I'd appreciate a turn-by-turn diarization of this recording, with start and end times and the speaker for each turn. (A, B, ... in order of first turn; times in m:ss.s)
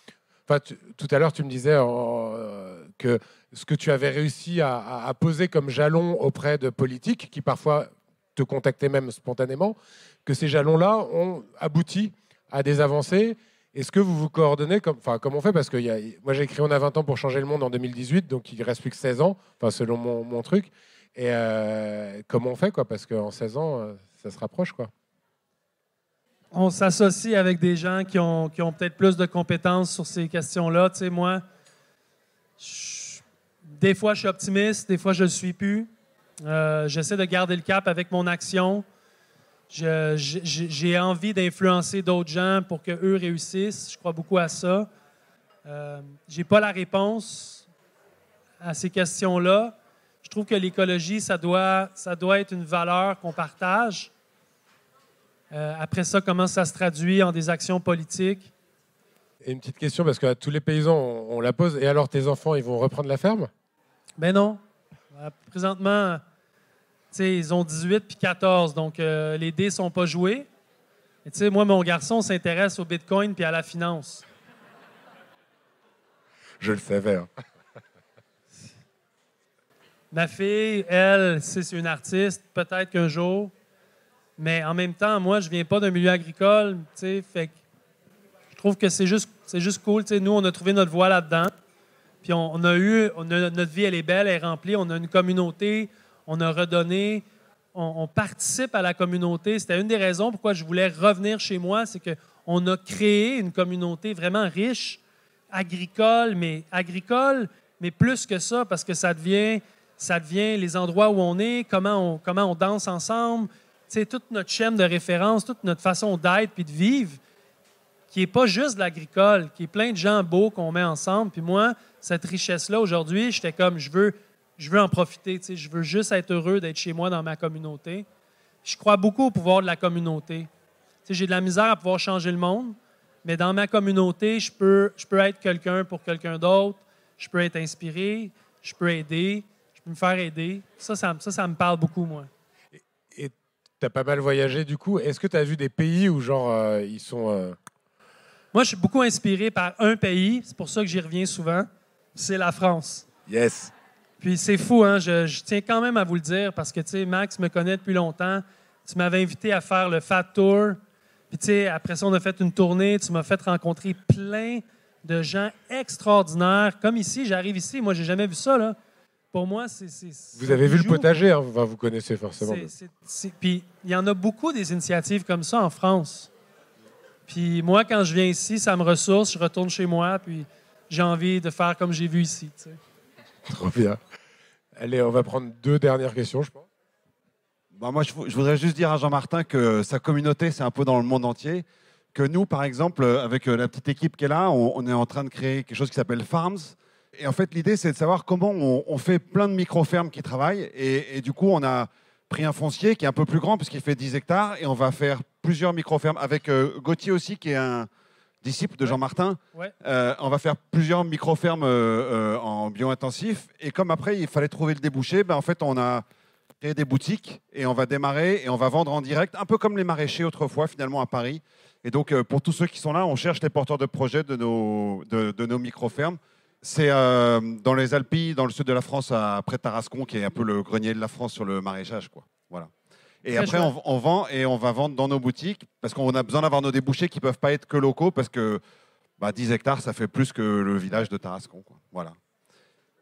0:00.5-0:24.9 A
0:26.5-0:31.4 B
0:32.6-0:35.9 B
0:36.4-0:38.8 B
0:39.7-0:44.9 B
0:45.6-0:47.7 B
0:48.6-0:54.1 B
0:55.5-0:58.5 B
0:59.4-1:03.5 A
1:04.2-1:04.6 B
1:05.1-1:06.2 B
1:07.1-1:10.5 B
1:11.2-1:14.2 B
1:16.6-1:17.3 A
1:20.1-1:23.5 B
1:24.4-1:27.6 B
1:28.5-1:31.5 B
1:32.2-1:45.0 B
1:45.5-1:57.2 B
1:58.1-2:08.0 B
2:08.6-2:10.5 B
2:11.0-2:22.3 B
2:22.8-2:27.6 A
2:28.5-2:33.1 B
2:33.3-2:33.7 A
2:34.2-2:40.8 B
2:41.3-2:48.8 B
2:49.3-2:51.1 B
2:50.4-2:52.7 A
2:52.4-2:56.3 B
2:57.3-3:02.8 B
3:03.5-3:04.0 A
3:04.8-3:06.6 A
3:07.7-3:27.9 C
3:28.4-3:36.0 C
3:36.6-3:52.7 C
3:53.2-3:58.6 C
3:53.3-3:53.7 B
3:59.2-4:02.2 C